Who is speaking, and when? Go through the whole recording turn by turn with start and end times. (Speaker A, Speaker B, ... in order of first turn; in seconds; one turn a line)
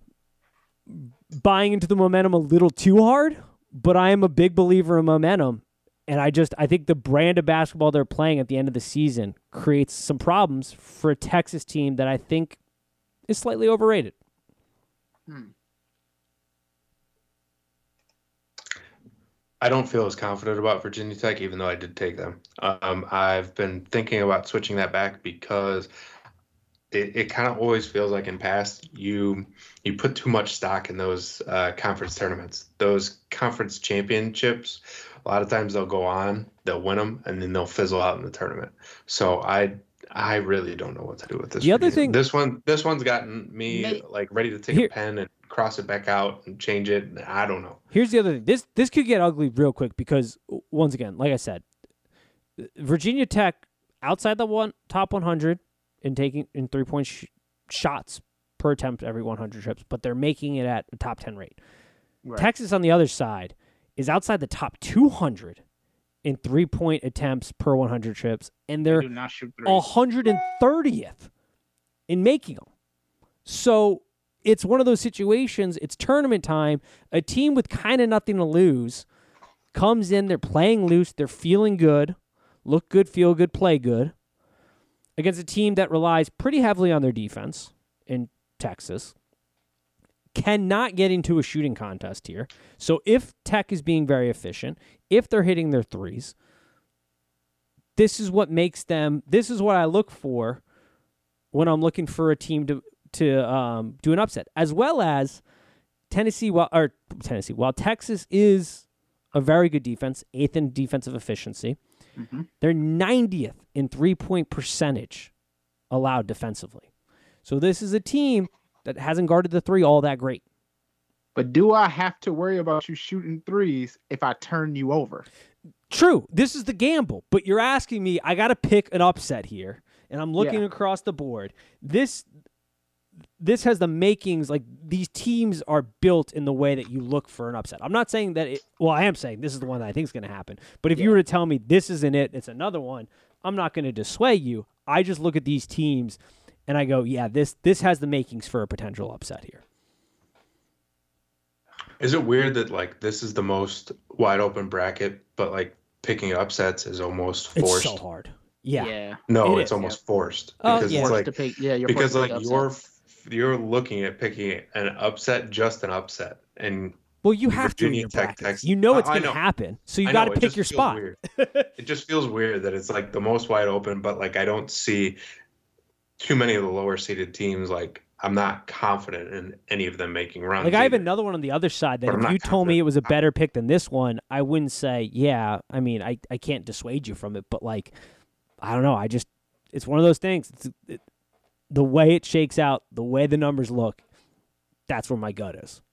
Speaker A: 0.9-12.6
Speaker A: 13.3-14.1
Speaker B: 19.6-25.9
Speaker B: 26.9-47.8
Speaker A: 41.6-42.2
Speaker C: 43.7-44.0
Speaker A: 47.9-51.6
Speaker A: 52.6-61.5
Speaker A: 62.4-65.6
Speaker A: 66.2-69.1
Speaker C: 68.9-69.8
Speaker A: 69.6-71.3
Speaker A: 72.1-72.7
Speaker A: 73.5-79.0
Speaker A: 79.7-84.1
Speaker A: 85.2-89.1
Speaker A: 90.3-96.3
Speaker A: 98.0-100.6
Speaker A: 101.5-105.4
Speaker A: 106.1-111.8
Speaker C: 112.2-112.5
Speaker A: 112.6-115.3
Speaker A: 115.9-116.8
Speaker A: 117.4-120.4
Speaker C: 121.3-125.2
Speaker A: 125.9-132.2
Speaker A: 133.4-149.6
Speaker B: 152.0-158.0
Speaker A: 157.6-159.8
Speaker C: 158.8-160.0
Speaker B: 159.3-161.3
Speaker A: 160.6-161.2
Speaker C: 160.7-162.8
Speaker B: 161.8-169.4
Speaker A: 167.2-171.7
Speaker B: 170.0-171.2
Speaker B: 171.8-175.2
Speaker B: 176.2-181.1
Speaker A: 180.6-187.9
Speaker B: 182.1-183.1
Speaker A: 188.6-191.0
Speaker A: 191.7-194.0
Speaker A: 194.9-195.8